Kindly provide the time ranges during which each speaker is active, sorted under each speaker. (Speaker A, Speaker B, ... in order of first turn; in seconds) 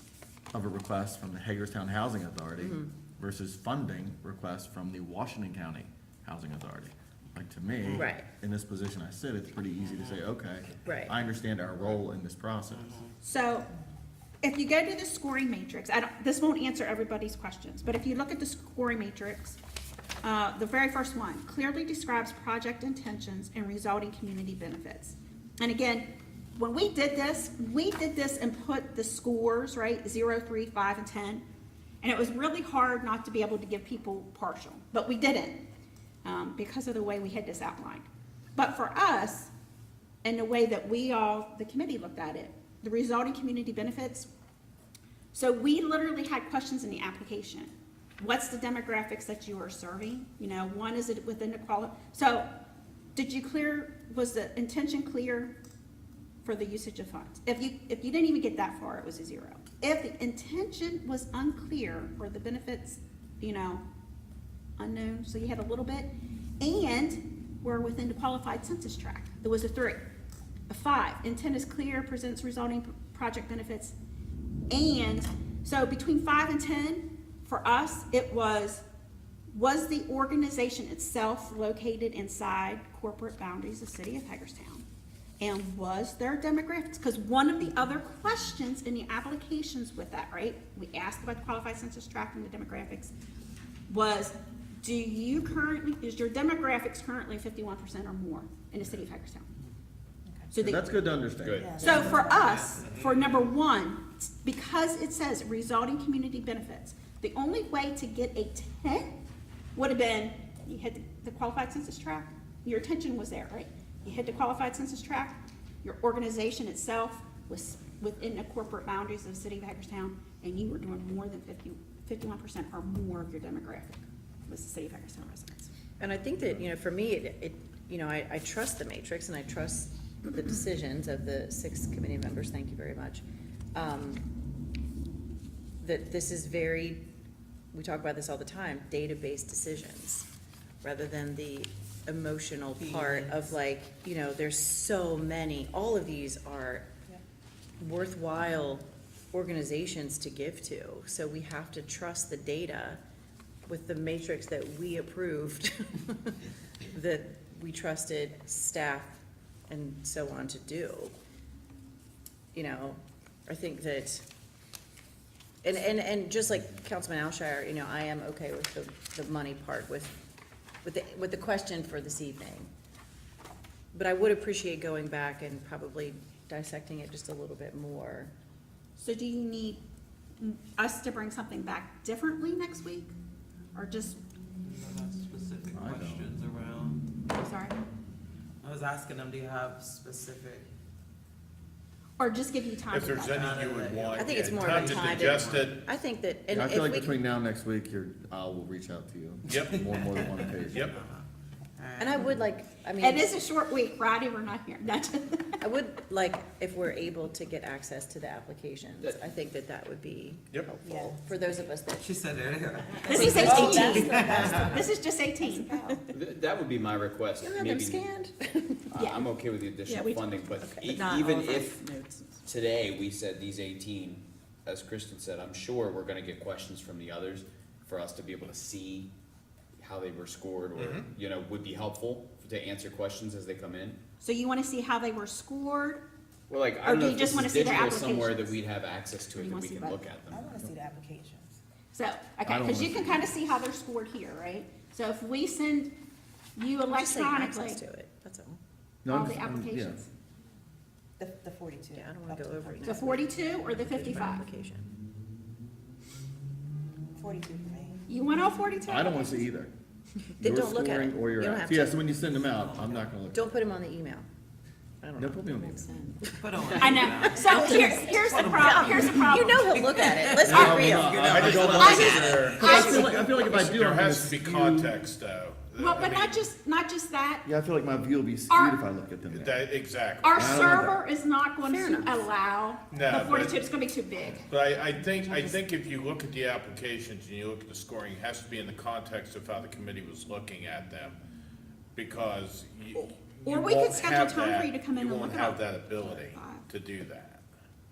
Speaker A: 0.5-12.9, 100.5-102.2, 185.7-186.3, 196.5-200.9, 242.5-243.3, 249.1-250.0, 258.9-259.7, 260.4-263.5, 265.2-265.9, 270.4-274.9, 277.4-279.6, 280.3-281.0
Speaker B: 2.6-2.9, 7.9-8.3, 10.8-11.1, 126.0-134.2, 135.8-137.0, 137.7-140.3, 140.8-146.9, 147.8-153.0, 153.7-156.3, 156.9-161.2, 162.5-164.2, 165.6-170.2, 170.8-172.7, 173.9-178.3, 194.2-197.2, 202.0-203.4, 205.6-212.1, 213.1-214.6, 217.4-218.9, 220.6-220.9, 246.9-248.6, 251.9-254.9, 260.4-262.0, 263.3-264.3, 265.0-273.2, 281.6-282.3
Speaker C: 9.8-10.2, 12.7-13.2, 102.0-103.5, 142.8-143.6, 184.6-187.0, 188.6-190.7, 193.3-195.7, 199.8-201.2, 201.8-202.3, 212.0-214.5, 262.3-263.1, 266.4-272.9
Speaker D: 13.2-13.7, 14.4-19.6, 20.2-31.4, 32.0-35.6, 36.2-39.5, 40.2-44.3, 45.3-52.5, 53.2-55.5, 56.5-63.8, 64.8-70.0, 70.7-74.0, 74.7-78.8, 79.5-84.8, 85.4-93.1, 93.9-99.5, 100.5-100.8, 101.8-109.1, 109.8-125.7, 179.0-179.8, 180.4-183.1, 183.7-184.2, 187.3-187.8, 192.2-193.5, 203.0-205.6, 213.1-216.1, 218.9-219.3, 219.8-222.4, 234.2-236.1, 236.8-238.6, 239.3-240.0, 241.9-245.9, 246.6-247.8, 249.1-250.1, 252.8-254.5, 258.1-259.5, 266.8-269.8, 270.5-270.9, 271.6-273.1, 275.8-277.4, 278.5-278.8, 280.2-284.5, 292.9-296.7
Speaker E: 101.4-102.1, 216.1-218.0, 218.9-221.8, 222.4-229.1, 229.8-234.0, 236.5-240.6
Speaker F: 101.7-102.3, 210.8-211.2, 213.5-214.9, 215.5-215.9, 240.3-241.5, 251.2-253.1, 257.2-258.0
Speaker G: 192.9-195.8, 199.5-199.8, 200.7-201.0, 230.8-231.1, 271.3-276.4, 279.3-280.9, 282.9-283.6, 284.2-291.2, 291.9-297.4